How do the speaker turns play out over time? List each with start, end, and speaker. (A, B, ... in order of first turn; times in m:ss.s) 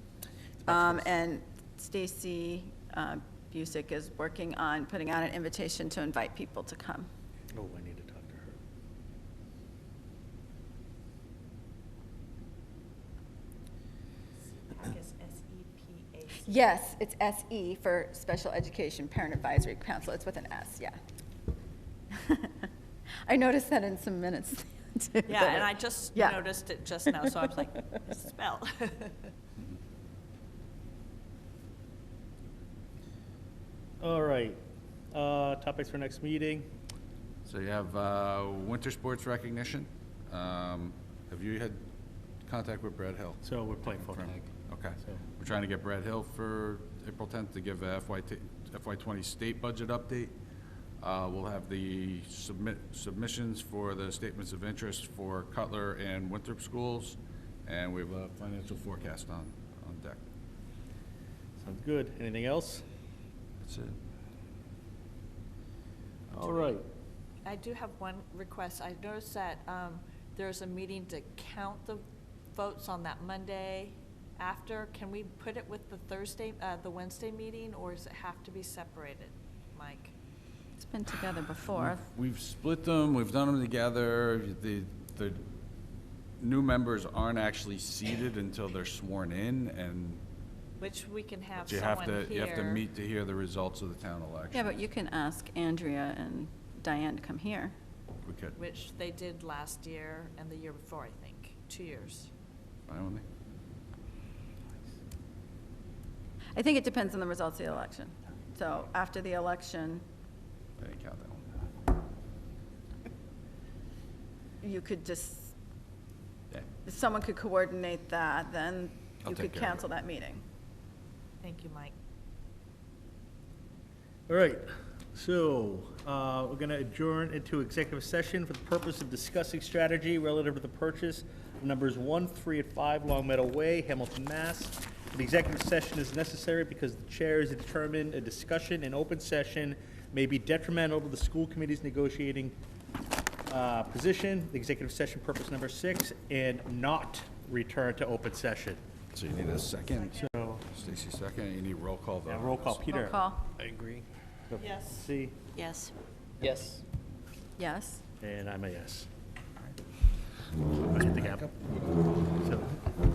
0:00.6-0:07.1 A
0:07.5-0:08.6 B
0:14.7-0:16.6 C
0:16.4-0:21.0 A
0:22.1-0:22.7 A
0:23.2-0:26.4 A
0:25.2-0:29.1 C
0:34.0-0:34.6 B
0:35.1-0:36.7 B
0:37.4-0:41.8 D
0:42.4-0:43.4 D
0:43.4-0:44.4 B
0:44.0-0:50.3 D
0:51.0-1:00.2 D
1:01.6-1:02.8 B
1:03.6-1:04.0 D
1:06.3-1:06.8 B
1:06.4-1:06.8 C
1:07.4-1:20.1 C
1:20.8-1:22.0 A
1:21.7-1:25.4 D
1:26.4-1:30.2 D
1:30.8-1:32.8 C
1:31.7-1:34.8 D
1:34.5-1:37.7 A
1:38.2-1:38.6 D
1:38.6-1:42.3 C
1:42.9-1:43.2 D
1:46.6-1:50.0 A
1:50.8-1:51.4 D
1:54.6-1:55.5 A
1:56.8-2:00.4 A
1:59.2-1:59.8 D
2:01.4-2:01.9 C
2:04.3-2:22.5 B
2:23.5-2:28.8 B
2:29.1-2:32.8 D
2:29.9-2:30.2 C
2:30.2-2:30.6 B
2:32.3-2:33.2 B
2:32.9-2:33.5 A
2:34.5-2:35.4 B
2:34.6-2:35.0 C
2:37.6-2:38.0 A
2:38.2-2:39.1 B
2:40.9-2:41.5 B
2:40.9-2:41.8 D
2:42.4-2:42.7 B